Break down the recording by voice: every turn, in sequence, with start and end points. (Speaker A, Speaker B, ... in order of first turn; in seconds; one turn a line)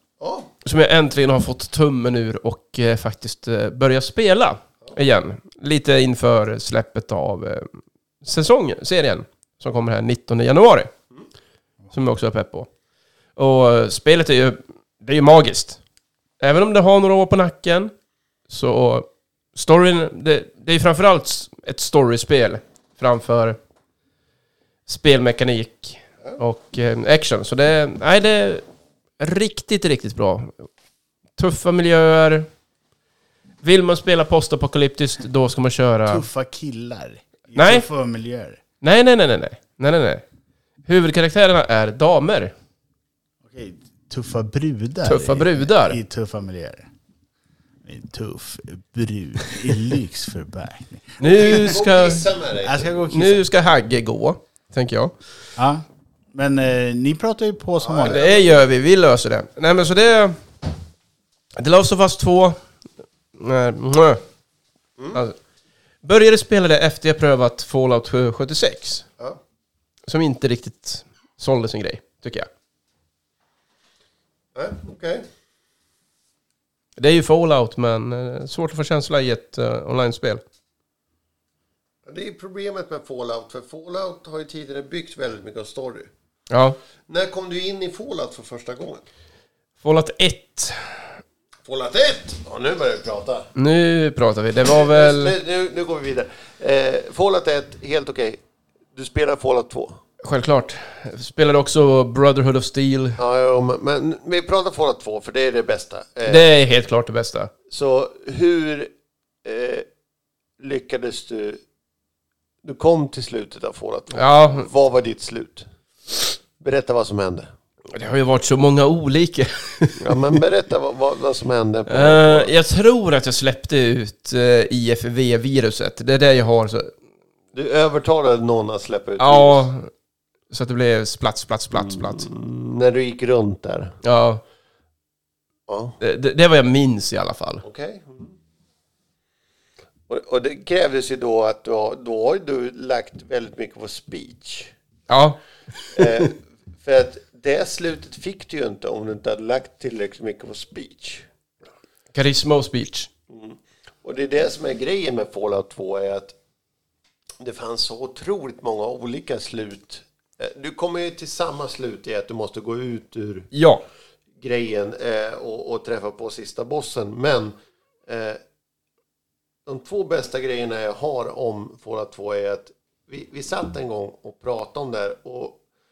Speaker A: 0.2-0.5
Speaker B: 0.6-7.7
Speaker B: 8.2-10.9
Speaker B: 11.9-12.7
Speaker B: 13.4-15.8
Speaker B: 16.4-17.9
Speaker B: 18.5-23.6
Speaker B: 24.9-28.6
Speaker B: 29.2-30.6
Speaker B: 31.4-32.5
Speaker B: 33.6-36.3
Speaker C: 36.1-38.6
Speaker B: 37.6-37.9
Speaker B: 38.8-40.2
Speaker B: 40.9-42.5
Speaker C: 43.5-46.9
Speaker B: 45.0-46.0
Speaker C: 47.9-51.2
Speaker B: 51.2-52.3
Speaker A: 51.2-52.9
Speaker C: 52.6-53.4
Speaker B: 53.1-55.1
Speaker C: 55.6-58.2
Speaker A: 57.8-58.5
Speaker B: 58.1-60.4
Speaker B: 61.6-62.6
Speaker B: 63.4-64.2
Speaker B: 66.0-69.1
Speaker B: 70.1-72.5
Speaker A: 74.5-75.2
Speaker B: 77.0-80.4
Speaker A: 82.1-86.1
Speaker B: 86.5-86.8
Speaker A: 87.1-89.0
Speaker B: 89.8-91.2
Speaker A: 91.7-93.5
Speaker B: 93.6-95.3
Speaker A: 94.7-98.4
Speaker A: 99.0-100.0
Speaker B: 100.2-103.2
Speaker A: 103.2-106.5
Speaker B: 106.3-107.5
Speaker A: 107.7-108.9
Speaker A: 109.4-109.9
Speaker A: 110.6-111.6
Speaker A: 112.6-117.5
Speaker B: 114.1-114.7
Speaker B: 117.9-120.2
Speaker A: 120.0-122.5
Speaker B: 121.9-126.9
Speaker A: 127.5-129.6
Speaker B: 129.2-129.9
Speaker B: 130.5-132.3
Speaker A: 131.8-134.0
Speaker B: 134.0-134.4
Speaker A: 135.7-136.0
Speaker B: 136.0-137.6
Speaker A: 137.6-138.4
Speaker A: 140.1-144.7
Speaker B: 145.1-145.4
Speaker A: 145.9-151.3
Speaker B: 152.1-153.1
Speaker A: 153.3-156.4
Speaker A: 157.4-163.5
Speaker B: 163.5-163.8
Speaker A: 164.4-167.6
Speaker A: 168.1-168.4
Speaker A: 169.7-175.6